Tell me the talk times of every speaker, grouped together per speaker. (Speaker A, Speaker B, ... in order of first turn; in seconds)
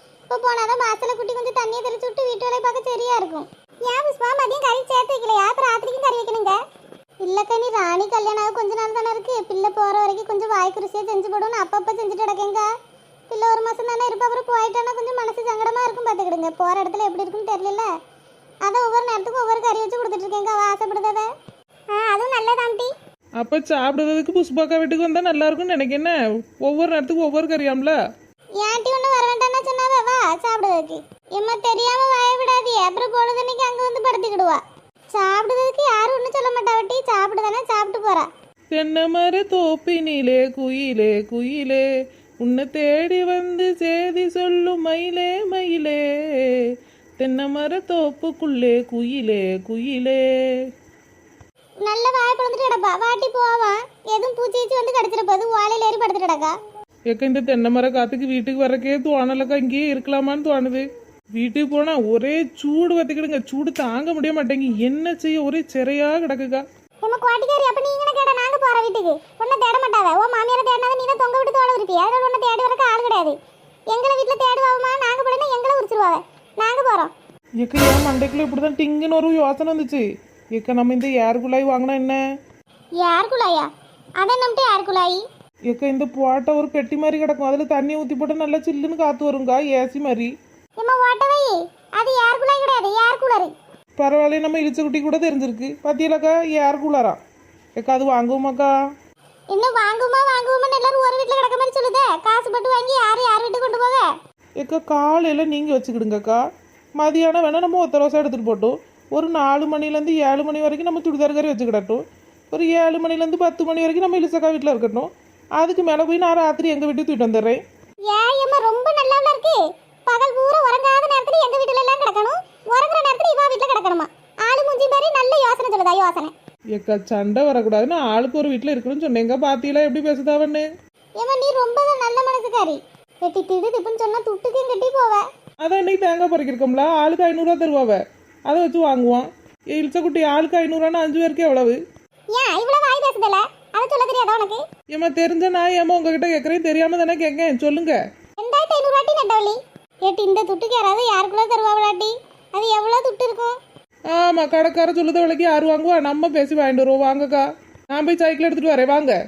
Speaker A: 0.3-6.5, 7.2-12.7, 13.3-17.9, 18.6-21.3, 21.9-22.9, 28.6-34.6, 35.1-38.3, 51.8-56.5, 67.0-73.3, 73.9-77.1, 83.0-85.2, 90.8-93.5, 99.5-104.1, 118.1-126.3, 131.2-135.2, 142.3-144.6, 148.4-153.6
Speaker B: 23.4-28.0, 38.7-41.8, 42.4-50.2, 57.1-66.6, 77.6-82.2, 85.7-90.3, 94.0-97.2, 97.8-98.7, 104.6-106.4, 107.0-117.6, 126.7-130.7, 135.6-141.8, 144.9-148.0, 154.1-159.2